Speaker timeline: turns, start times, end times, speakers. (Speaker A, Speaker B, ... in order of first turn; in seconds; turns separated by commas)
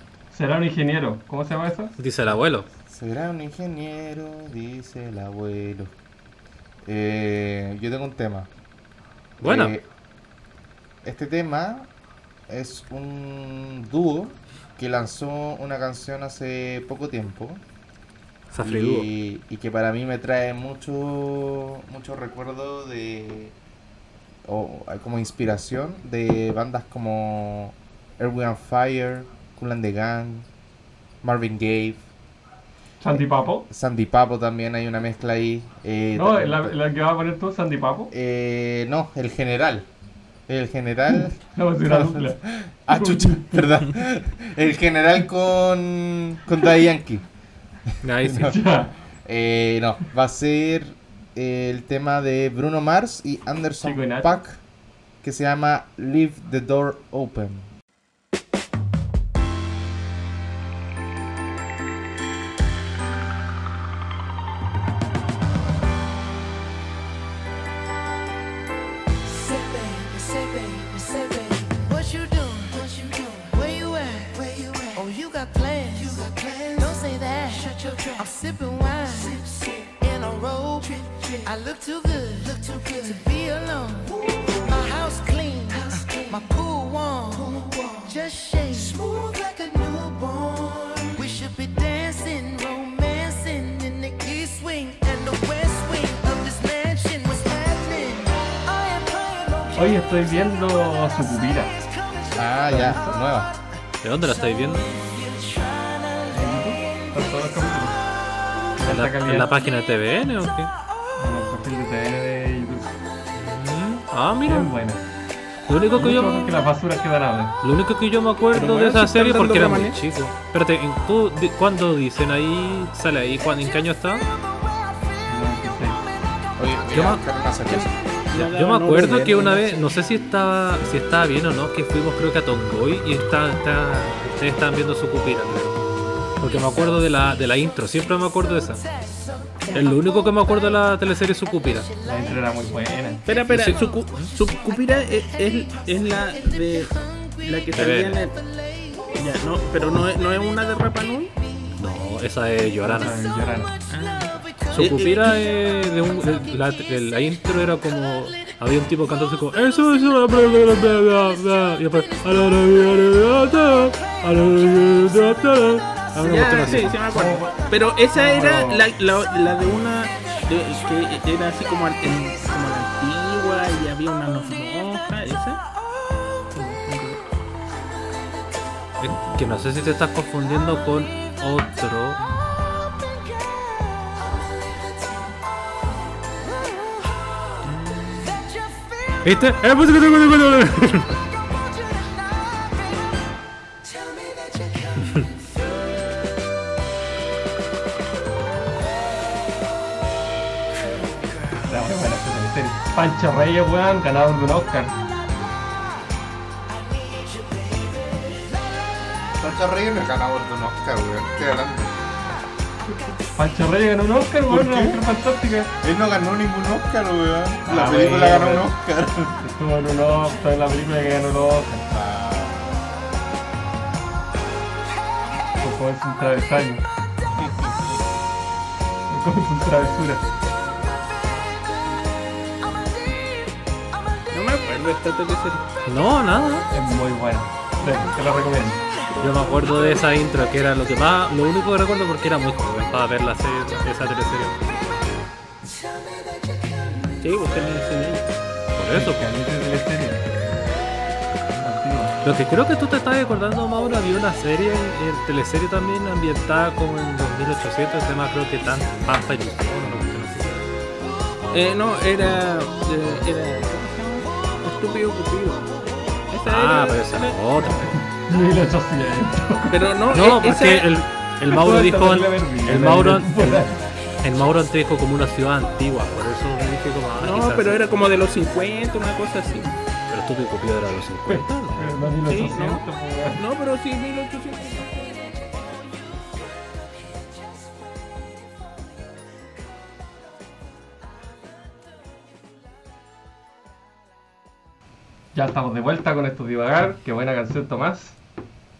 Speaker A: 0.3-1.9, Speaker B: 2.0-2.7, Speaker C: 2.9-5.9, Speaker C: 6.8-8.5, Speaker B: 9.4-9.7, Speaker C: 9.4-9.9, Speaker C: 11.0-11.9, Speaker C: 12.5-17.6, Speaker B: 18.5-19.1, Speaker C: 18.6-23.5, Speaker C: 24.5-30.5, Speaker C: 31.2-32.0, Speaker A: 33.0-33.7, Speaker C: 33.7-36.7, Speaker A: 36.1-38.1, Speaker C: 38.1-39.9, Speaker C: 40.5-47.2, Speaker A: 41.1-43.8, Speaker C: 47.9-48.6, Speaker B: 48.0-48.5, Speaker A: 48.3-48.9, Speaker C: 49.1-54.6, Speaker A: 53.8-54.4, Speaker C: 55.2-57.7, Speaker D: 69.3-100.0, Speaker A: 99.7-101.7, Speaker D: 101.8-102.4, Speaker C: 102.3-103.5, Speaker A: 102.7-103.2, Speaker B: 104.0-104.9, Speaker D: 104.5-107.1, Speaker A: 106.3-108.0, Speaker A: 108.8-109.7, Speaker B: 108.8-110.7, Speaker A: 111.2-113.0, Speaker B: 113.3-114.7, Speaker A: 114.4-115.0, Speaker B: 115.7-116.6, Speaker A: 115.9-117.6, Speaker B: 117.6-124.2, Speaker E: 118.5-120.0, Speaker A: 125.2-126.0, Speaker C: 126.6-128.0, Speaker B: 126.9-127.2, Speaker E: 127.7-129.8, Speaker B: 128.3-135.8, Speaker B: 136.4-138.8, Speaker D: 138.8-140.8, Speaker B: 139.7-141.9, Speaker D: 141.4-142.4, Speaker A: 142.0-143.2, Speaker E: 143.2-148.3, Speaker B: 143.5-144.3, Speaker D: 143.5-144.3, Speaker D: 144.9-149.1, Speaker B: 147.7-148.2, Speaker E: 149.2-151.3, Speaker B: 151.8-153.2, Speaker A: 152.8-153.7, Speaker E: 153.9-155.4, Speaker D: 154.1-154.5, Speaker B: 154.7-167.0, Speaker E: 166.2-175.6, Speaker A: 166.7-167.6, Speaker A: 168.1-168.9, Speaker E: 176.5-177.2, Speaker B: 179.0-182.2, Speaker D: 183.4-185.2, Speaker D: 186.4-186.9, Speaker B: 187.7-188.2, Speaker D: 188.2-189.2, Speaker B: 189.2-191.1, Speaker D: 191.4-193.2, Speaker D: 193.8-195.3, Speaker A: 201.6-204.9, Speaker D: 206.8-208.5, Speaker C: 209.4-212.0, Speaker A: 213.3-215.7, Speaker C: 214.5-215.0, Speaker C: 215.8-219.4, Speaker A: 217.6-218.7, Speaker A: 219.4-221.8, Speaker C: 221.9-222.8, Speaker A: 225.6-226.8, Speaker C: 227.4-227.8, Speaker A: 229.1-230.2, Speaker E: 234.3-235.6, Speaker B: 235.8-236.7, Speaker A: 236.7-238.8, Speaker E: 239.1-240.0, Speaker B: 239.2-244.6, Speaker E: 247.2-248.4, Speaker B: 248.8-249.2, Speaker A: 248.9-250.3, Speaker A: 251.6-252.1, Speaker B: 252.2-260.6, Speaker E: 261.5-265.7, Speaker E: 266.3-267.4, Speaker B: 266.4-267.9, Speaker A: 267.6-269.9, Speaker E: 269.7-270.9, Speaker B: 270.1-277.8, Speaker A: 271.4-273.8, Speaker E: 277.2-279.8, Speaker B: 280.1-281.9, Speaker A: 281.2-283.4, Speaker E: 282.3-285.1, Speaker D: 285.2-288.1, Speaker A: 295.3-298.1